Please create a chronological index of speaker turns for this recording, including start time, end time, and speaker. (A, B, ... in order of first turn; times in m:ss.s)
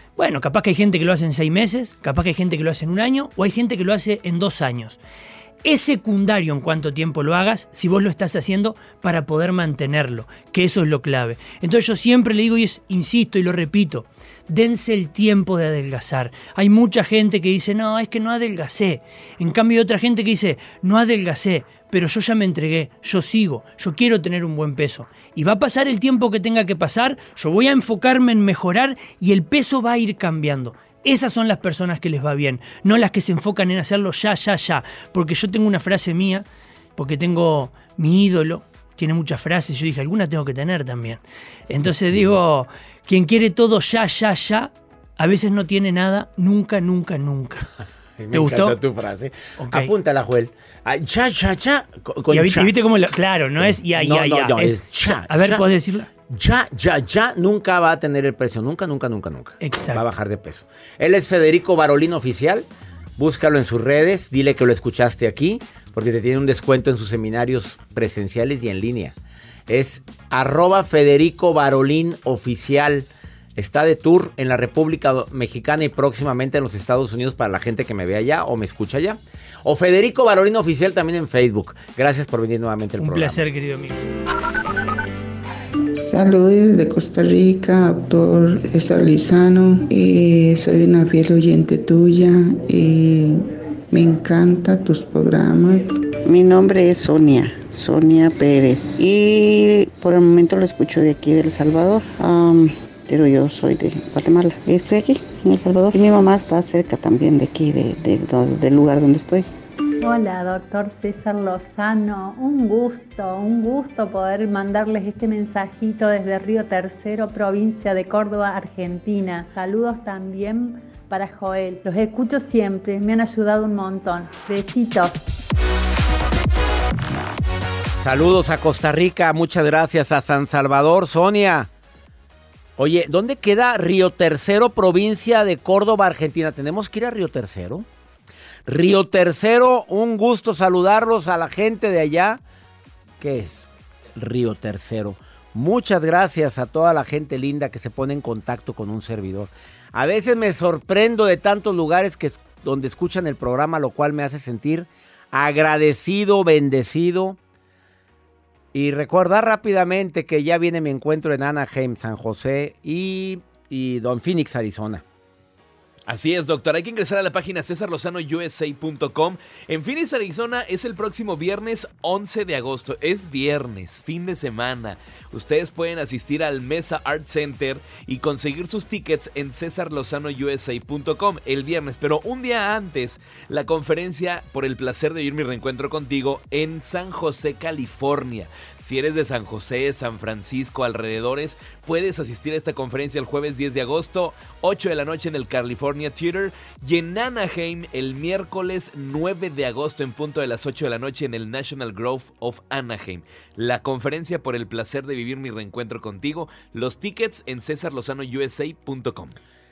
0:00.2-0:05.0 A
0:05.6-0:47.7 A
0:48.2-0:52.7 B
0:48.3-0:48.8 A
0:49.6-0:49.9 A
0:52.3-0:56.1 A
0:53.6-0:55.6 B
0:56.3-1:02.6 B
0:59.6-1:00.1 A
1:03.2-1:09.2 B
1:09.7-1:23.4 B
1:23.0-1:24.0 A
1:25.9-1:36.1 C
1:36.2-1:49.5 D
1:50.0-2:05.2 E
2:08.0-2:11.7 B
2:12.8-2:17.9 B
2:18.7-2:22.4 B
2:23.2-2:37.4 B
2:38.7-2:45.0 B
2:46.1-3:29.4 F